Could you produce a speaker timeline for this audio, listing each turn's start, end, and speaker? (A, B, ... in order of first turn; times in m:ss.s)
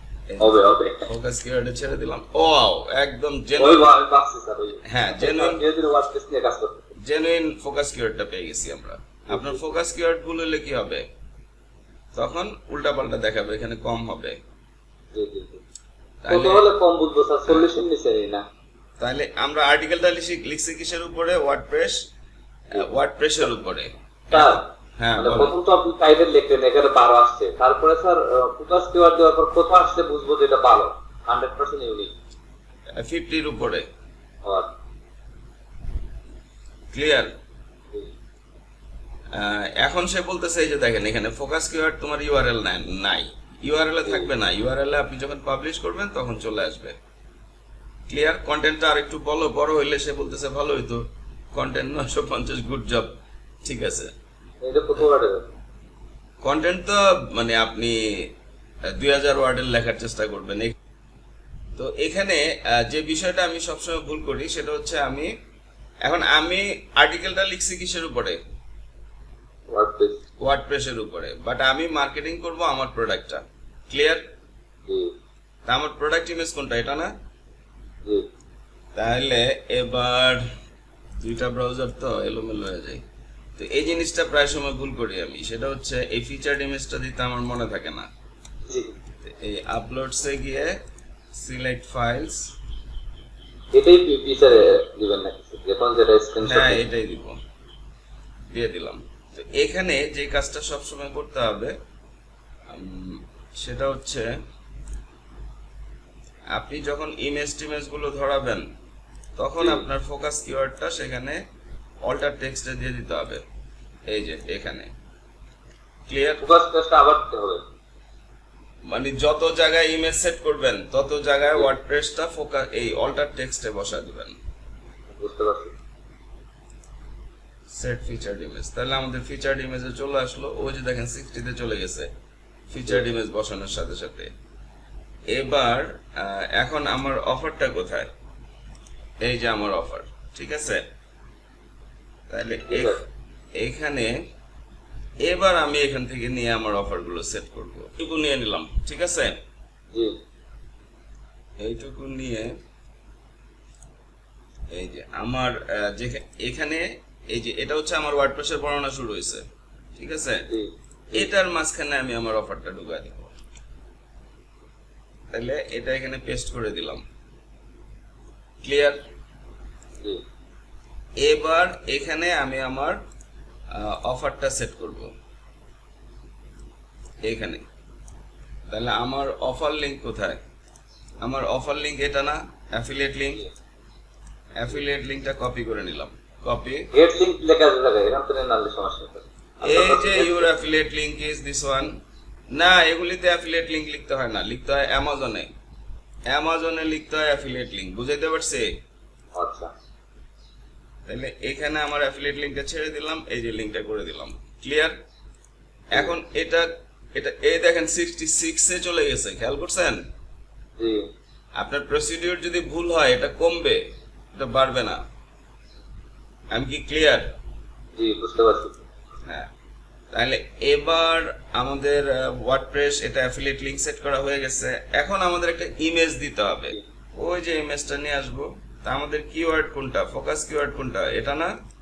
0:00.3-0:03.9 A
0:00.4-0:01.0 B
0:03.6-0:06.9 B
0:04.8-0:05.6 A
0:07.0-0:11.0 A
0:09.3-0:09.7 B
0:12.2-0:14.4 A
0:15.1-0:15.6 B
0:16.2-0:16.6 A
0:16.3-0:18.4 B
0:19.0-0:22.0 A
0:22.7-0:25.5 A
0:24.3-0:24.6 B
0:25.2-0:32.1 B
0:33.0-0:33.8 A
0:34.4-0:34.7 B
0:36.9-0:37.3 A
0:39.3-0:47.0 A
0:48.1-0:54.1 A
0:54.6-0:55.4 B
0:56.4-0:58.0 A
0:58.9-1:00.7 A
1:01.8-1:05.3 A
1:06.0-1:08.4 A
1:09.7-1:10.2 B
1:10.4-1:14.2 A
1:14.9-1:15.1 B
1:15.7-1:17.1 A
1:19.0-1:20.4 A
1:21.2-1:23.0 A
1:23.6-1:28.1 A
1:28.7-1:28.9 B
1:29.2-1:30.7 A
1:31.3-1:32.4 A
1:33.7-1:36.8 B
1:36.4-1:37.4 A
1:38.5-1:41.7 A
1:42.7-1:44.2 A
1:46.5-1:48.6 A
1:49.4-1:51.4 A
1:49.6-1:49.9 B
1:52.0-1:53.4 A
1:54.1-1:54.9 A
1:56.1-1:56.4 A
1:56.4-1:57.6 B
1:58.9-2:04.4 A
2:05.2-2:05.7 B
2:07.7-2:12.1 A
2:12.7-2:14.3 A
2:15.3-2:18.1 A
2:19.2-2:20.8 A
2:22.3-2:23.0 A
2:22.7-2:23.0 B
2:23.6-2:24.1 A
2:25.2-2:29.4 A
2:31.6-2:32.5 A
2:34.7-2:39.4 A
2:40.0-2:40.4 A
2:40.5-2:41.3 B
2:41.1-2:43.3 A
2:45.3-2:47.0 A
2:48.6-2:49.0 A
2:51.2-2:53.0 A
2:53.7-2:55.1 A
2:57.2-2:57.6 A
2:58.7-3:00.4 A
3:01.2-3:03.4 A
3:04.6-3:06.9 A
3:06.9-3:10.5 B
3:09.6-3:11.9 A
3:12.5-3:15.5 A
3:16.3-3:18.7 A
3:19.3-3:19.7 B
3:21.1-3:24.9 A
3:25.9-3:30.0 A
3:31.6-3:33.8 A
3:34.3-3:35.0 A
3:36.5-3:37.3 A
3:38.0-3:38.8 B
3:40.1-3:51.5 A